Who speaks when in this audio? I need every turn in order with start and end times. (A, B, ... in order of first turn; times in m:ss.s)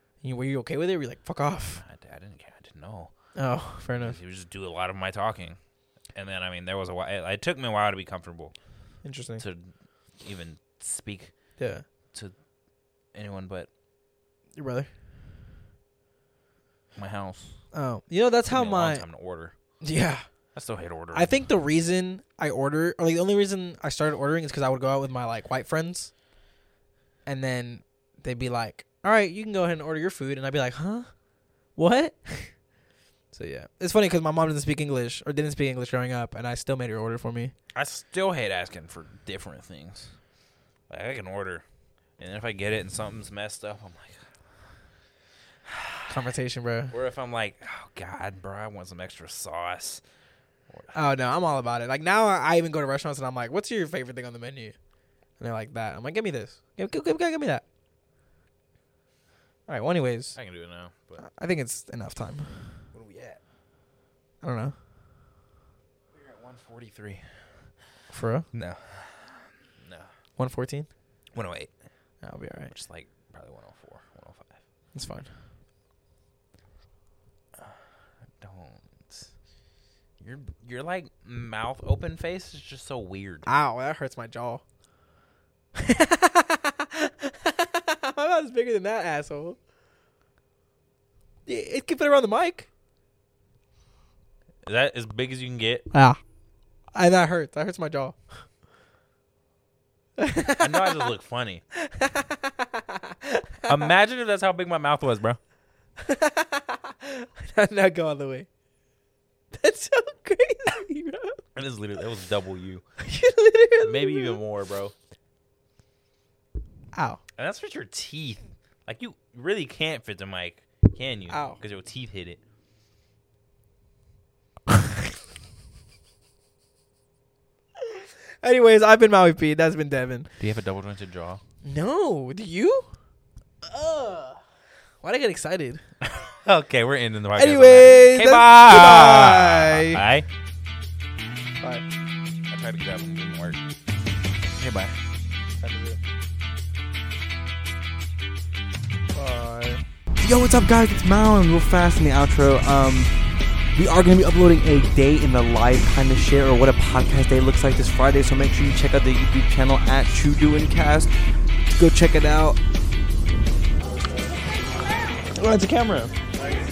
0:00.2-0:01.8 A
0:01.8-0:03.1 B
0:03.4-0:04.2 A
0:04.0-0:05.6 B
0:06.1-0:08.6 B
0:09.0-0:09.4 A
0:09.4-0:11.4 B
0:11.6-0:11.8 A
0:13.1-0:13.7 B
0:14.6-0:14.9 A
0:17.0-0:17.6 B
0:17.7-0:19.1 A
0:18.5-0:19.6 B
0:19.8-0:20.3 A
0:20.5-0:21.4 B
0:21.1-0:26.1 A
0:27.3-0:31.1 A
0:31.8-0:32.5 A
0:33.3-0:37.5 A
0:37.7-0:40.2 B
0:40.9-0:41.6 B
0:42.2-0:44.3 B
0:45.7-0:46.2 B
0:46.1-0:46.9 A
0:46.9-0:50.0 B
0:50.7-0:51.0 B
0:50.9-0:54.8 A
0:55.4-0:57.6 A
0:59.7-1:00.4 A
1:00.4-1:01.3 B
1:01.2-1:02.8 A
1:02.9-1:03.4 B
1:04.4-1:04.8 A
1:06.1-1:07.7 B
1:08.1-1:08.5 A
1:08.5-1:10.1 B
1:10.4-1:10.9 A
1:11.3-1:11.7 B
1:12.2-1:12.7 A
1:12.7-1:14.6 B
1:14.9-1:15.3 A
1:17.6-1:17.8 B
1:18.4-1:19.3 B
1:20.2-1:23.5 B
1:23.5-1:24.6 A
1:25.8-1:29.6 A
1:31.5-1:32.7 A
1:34.6-1:35.9 B
1:35.9-1:36.2 A
1:36.9-1:38.4 A
1:40.2-1:41.1 A
1:40.6-1:41.6 B
1:41.7-1:43.8 A
1:43.7-1:45.4 B
1:46.0-1:48.5 A
1:49.5-1:51.4 A
1:51.6-1:52.8 B
1:53.0-1:54.4 A
1:53.8-1:54.9 B
1:56.9-1:57.2 A
1:57.4-2:02.4 B
2:01.3-2:01.6 A
2:08.4-2:10.3 A
2:10.4-2:11.4 B
2:11.6-2:12.9 A
2:13.6-2:14.4 A
2:15.0-2:15.8 A
2:16.0-2:20.3 B
2:17.4-2:20.0 A
2:22.5-2:23.6 B
2:24.6-2:24.9 B
2:25.6-2:26.0 A
2:25.7-2:26.0 C
2:29.2-2:29.8 A
2:29.4-2:33.1 C
2:33.8-2:41.1 C
2:41.7-2:42.6 C
2:45.4-2:46.1 A